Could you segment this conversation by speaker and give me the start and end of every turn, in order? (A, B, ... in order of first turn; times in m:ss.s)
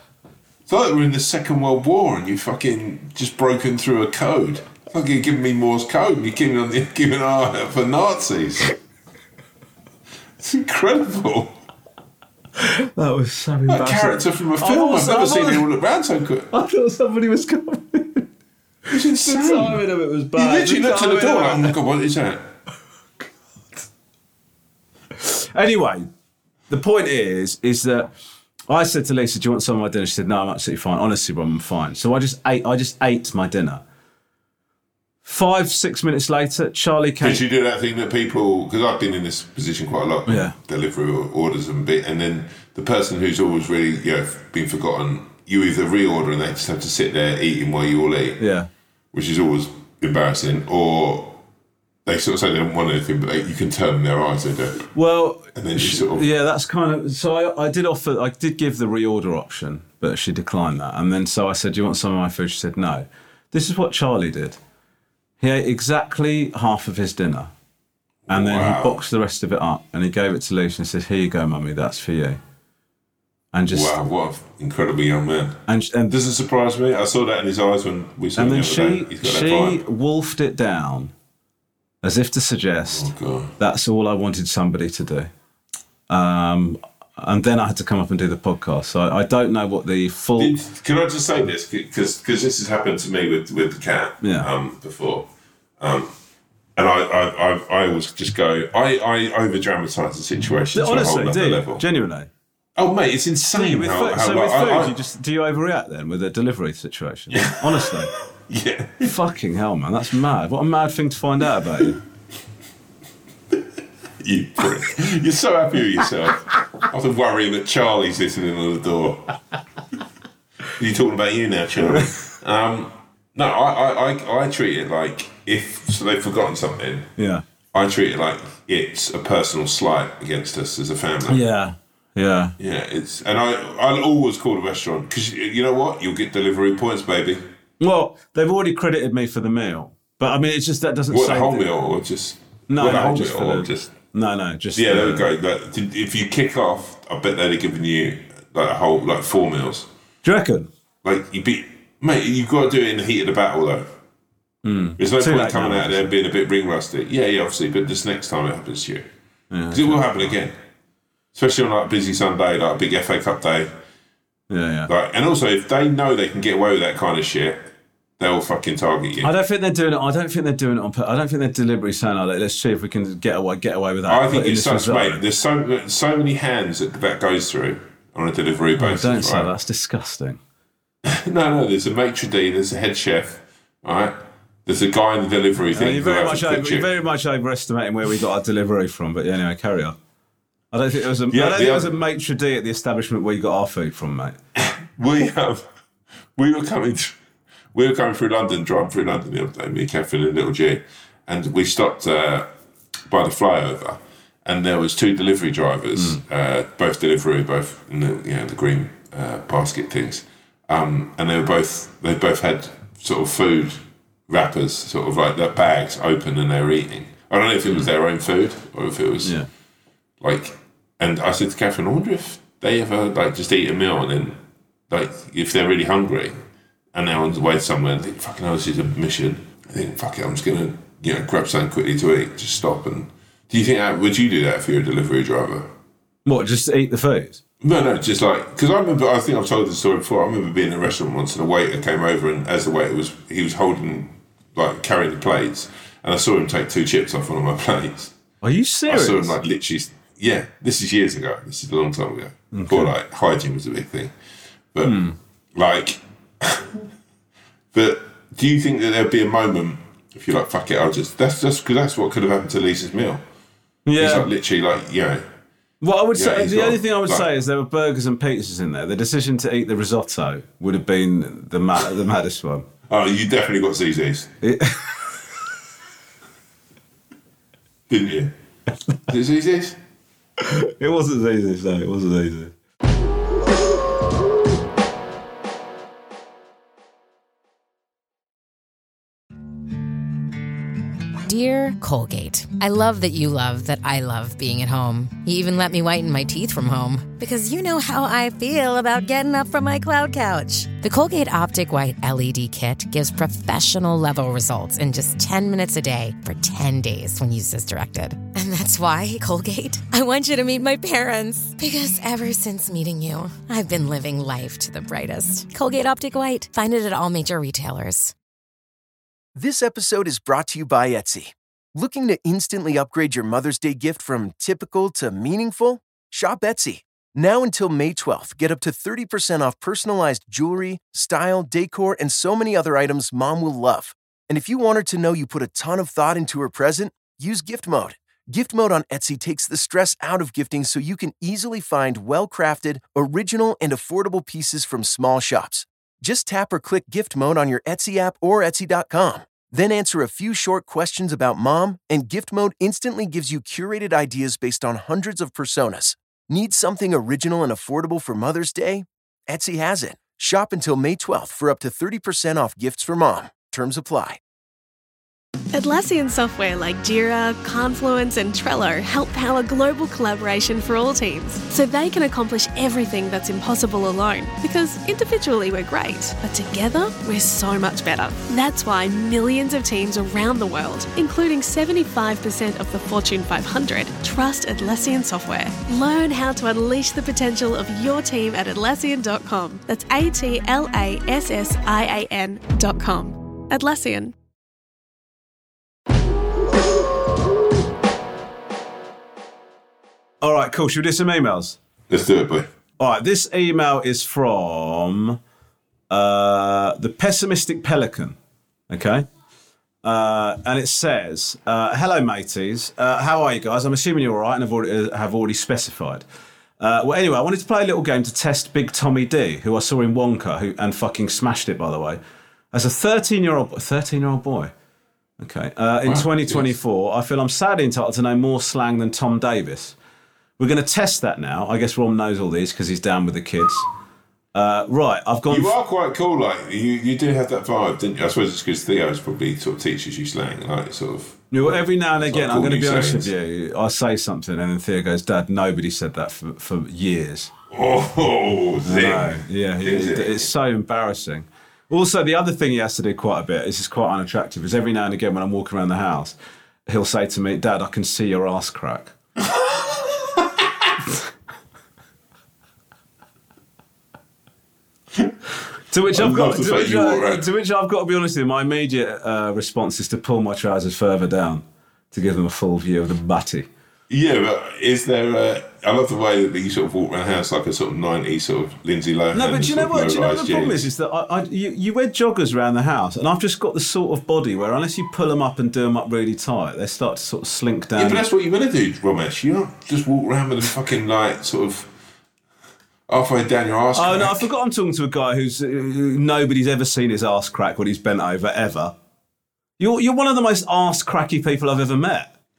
0:00.7-0:08.8 A
0:10.4-0:11.6 A
0:12.6-0:15.6 B
0:13.7-0:16.5 A
0:16.5-0:18.3 B
0:18.9-0:19.8 A
0:19.0-0:21.7 B
0:20.4-0:22.4 A
0:25.2-0:26.1 B
0:26.7-0:28.1 B
0:28.7-0:33.8 B
0:35.2-0:37.4 B
0:37.2-0:48.4 A
0:40.3-0:40.5 B
0:48.4-0:48.7 B
0:49.1-0:51.4 A
0:52.1-0:54.9 A
0:55.0-1:04.6 B
0:55.6-0:56.2 A
1:05.4-1:07.5 B
1:08.3-1:09.0 A
1:08.3-1:12.4 B
1:13.5-1:14.0 B
1:13.7-1:19.8 A
1:15.7-1:16.1 B
1:18.4-1:21.1 B
1:22.0-1:25.3 B
1:22.9-1:23.5 A
1:26.1-1:30.5 B
1:30.4-1:35.3 A
1:34.2-1:34.5 B
1:35.8-1:36.1 A
1:36.8-1:41.8 A
1:40.8-1:42.3 B
1:42.8-1:44.9 A
1:43.6-1:48.1 B
1:47.3-1:49.1 A
1:49.0-1:52.0 B
1:54.2-1:59.3 A
2:00.8-2:07.1 A
2:07.2-2:07.4 B
2:07.7-2:11.4 A
2:11.3-2:12.6 B
2:12.6-2:17.4 A
2:17.8-2:21.7 B
2:21.1-2:23.9 A
2:22.7-2:25.3 B
2:24.8-2:29.9 A
2:30.2-2:30.7 B
2:31.0-2:33.9 A
2:34.6-2:36.1 B
2:35.0-2:39.1 A
2:39.5-2:40.3 B
2:39.7-2:40.5 A
2:41.4-2:43.7 A
2:44.5-2:44.9 B
2:44.9-2:47.7 A
2:48.2-2:49.3 A
2:49.2-2:55.2 B
2:54.1-2:59.5 A
2:58.8-3:00.4 B
3:01.0-3:04.1 A
3:04.7-3:06.9 A
3:05.7-3:10.0 B
3:10.7-3:14.4 B
3:11.3-3:11.9 A
3:14.6-3:15.6 A
3:16.4-3:17.2 A
3:17.7-3:22.5 A
3:23.1-3:39.4 A
3:26.0-3:26.2 B
3:39.2-3:39.5 B
3:40.2-3:44.4 A
3:44.9-3:46.4 A
3:46.9-3:55.7 A
3:56.3-3:57.4 B
3:57.6-4:08.1 A
4:08.4-4:09.4 B
4:08.9-4:14.1 A
4:12.5-4:12.9 B
4:14.7-4:15.0 A
4:14.8-4:15.2 B
4:15.6-4:16.8 A
4:17.7-4:23.2 A
4:23.9-4:24.3 B
4:24.0-4:25.2 A
4:25.8-4:32.7 B
4:26.1-4:27.3 A
4:32.9-4:34.3 A
4:34.4-4:35.2 B
4:37.9-4:38.3 A
4:39.1-4:39.8 A
4:40.4-4:42.5 B
4:51.2-5:18.1 C
5:19.4-6:04.2 D
6:05.5-6:34.1 E
6:40.2-6:41.6 B
6:41.9-6:42.5 A
6:42.8-6:45.2 B
6:45.9-6:48.2 B
6:48.7-6:49.1 B
6:49.8-6:56.0 B
6:56.6-7:02.0 B
7:02.5-7:04.5 B
7:05.2-7:09.8 B
7:05.8-7:06.5 A
7:10.4-7:13.7 B
7:14.4-7:15.5 B
7:15.3-7:23.1 A
7:21.3-7:27.3 B
7:27.5-7:30.3 A
7:28.6-7:36.2 B
7:36.7-7:38.9 B
7:39.3-7:39.9 A
7:45.7-7:53.5 B
7:45.9-7:47.3 A
7:53.9-8:00.6 A
7:59.1-8:08.0 B
8:07.8-8:11.7 A
8:12.9-8:14.3 A
8:13.8-8:18.7 B
8:19.6-8:22.1 B